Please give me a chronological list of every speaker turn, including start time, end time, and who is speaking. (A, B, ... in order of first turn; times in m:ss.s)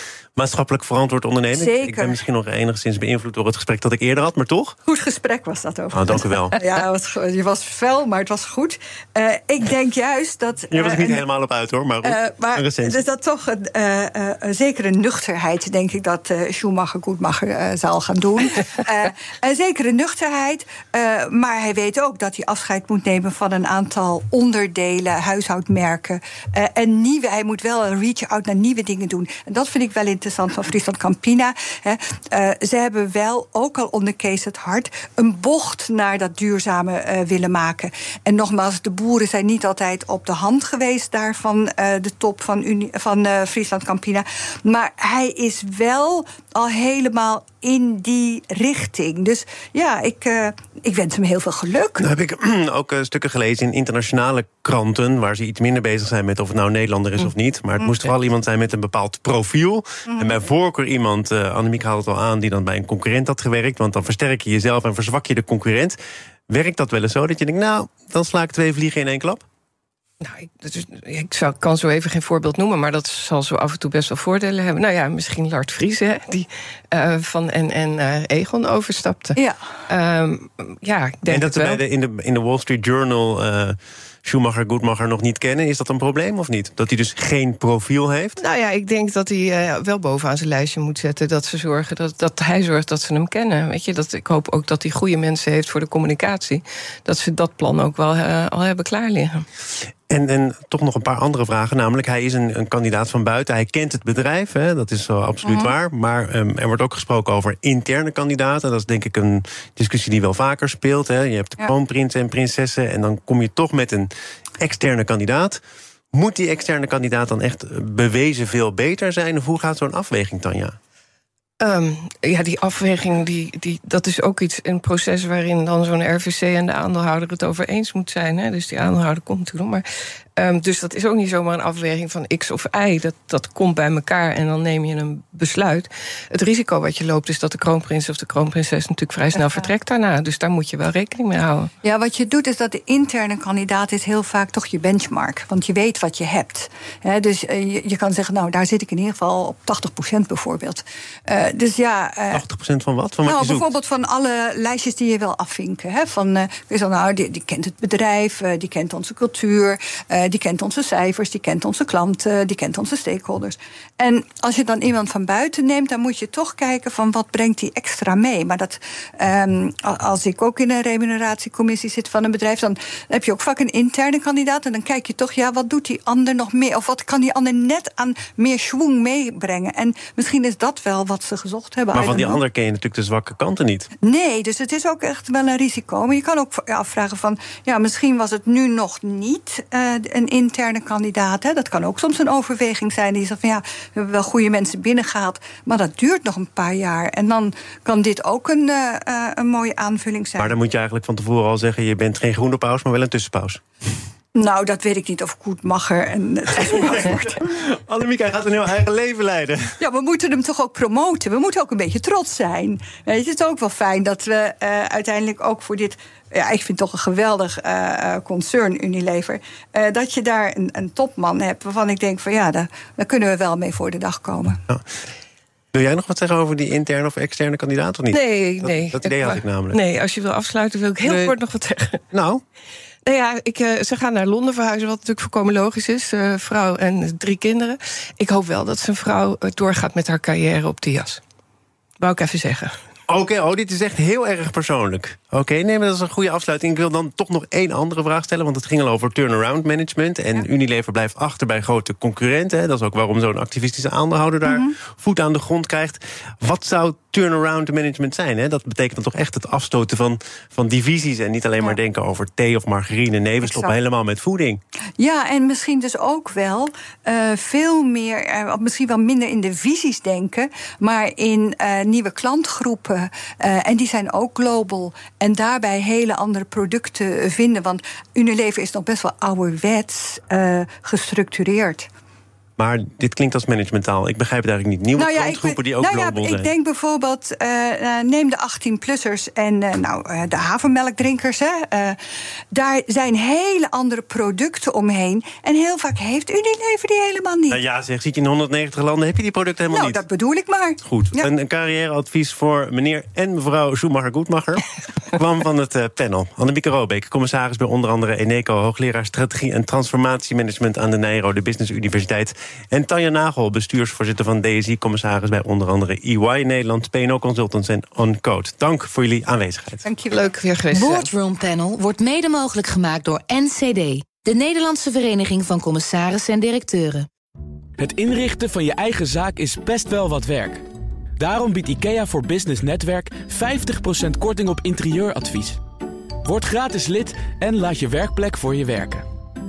0:00.4-0:04.8 A
0:01.5-0:02.2 B
0:04.9-0:11.2 B
0:05.9-0:06.6 A
0:10.7-0:13.0 A
0:12.0-0:52.1 B
0:52.0-1:06.0 A
1:00.1-1:00.4 B
1:06.5-1:09.4 A
1:10.2-1:19.4 C
1:19.4-1:19.6 B
1:19.9-1:21.8 C
1:21.3-1:28.4 A
1:28.4-1:39.5 C
1:40.1-1:55.6 A
1:45.5-1:45.7 B
1:56.1-2:00.8 A
2:01.6-2:09.8 C
2:10.4-2:21.7 C
2:21.8-2:32.4 B
2:32.3-2:33.7 A
2:33.2-3:02.4 B
3:01.9-3:03.9 A
3:04.0-3:20.5 B
3:20.4-3:23.6 A
3:24.4-3:27.4 B
3:26.6-3:29.8 A
3:29.8-3:44.6 B
3:45.7-3:49.8 A
3:48.1-3:52.0 C
3:51.0-3:51.4 A
3:52.1-3:52.4 A
3:53.1-4:01.2 C
4:02.0-4:02.8 C
4:03.1-4:24.6 A
4:14.5-4:14.8 B
4:23.5-4:23.7 B
4:25.0-4:41.9 B
4:42.6-4:46.5 A
4:45.0-4:52.0 B
4:52.5-4:57.6 B
4:57.5-5:00.0 A
4:59.7-5:01.3 B
5:00.8-5:19.8 A
5:19.8-5:20.2 B
5:20.1-5:21.1 C
5:20.7-5:27.1 D
5:27.8-5:30.6 E
5:31.2-5:35.6 E
5:36.2-5:39.0 E